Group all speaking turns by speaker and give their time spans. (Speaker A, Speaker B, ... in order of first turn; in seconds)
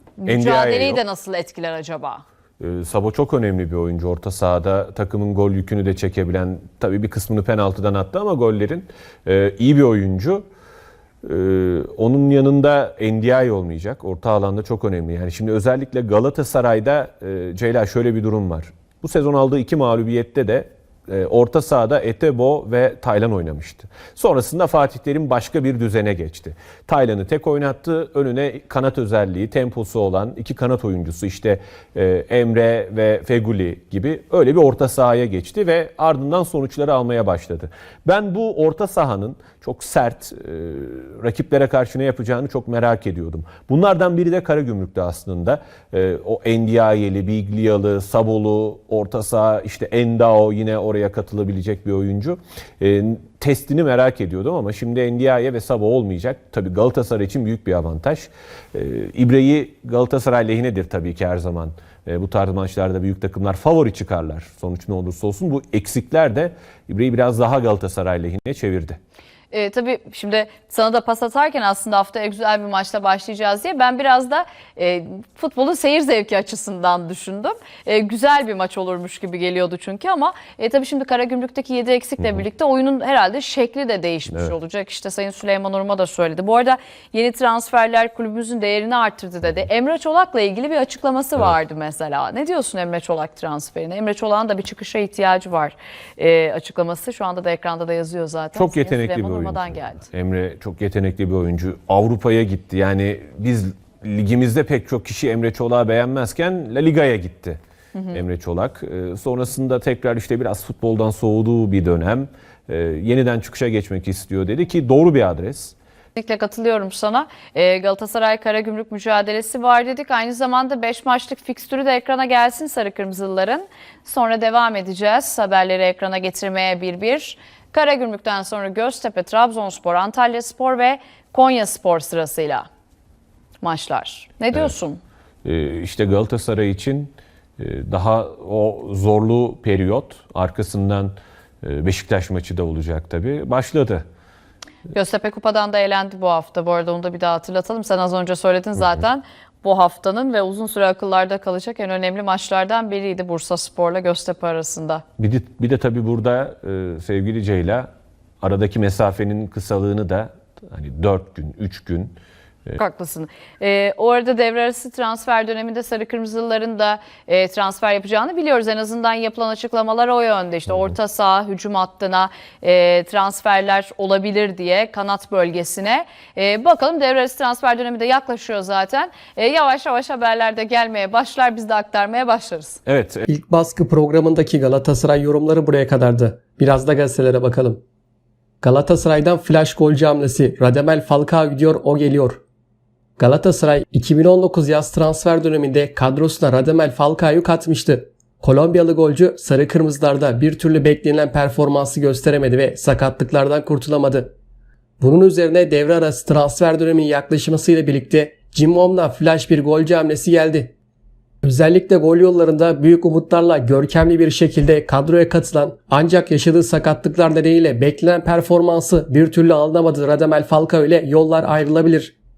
Speaker A: 0.2-2.2, 69.5-100.1, 107.9-108.2, 116.2-132.7, 133.6-135.0, 144.9-155.0, 162.8-182.8
Speaker B: 0.3-1.0, 2.6-10.5, 11.2-69.0, 98.5-107.6, 108.1-115.8, 135.4-144.0, 155.2-157.9, 158.4-162.1, 182.9-183.3
Speaker C: 183.3-187.8, 188.6-192.4, 193.2-204.3, 205.0-210.7, 211.4-222.1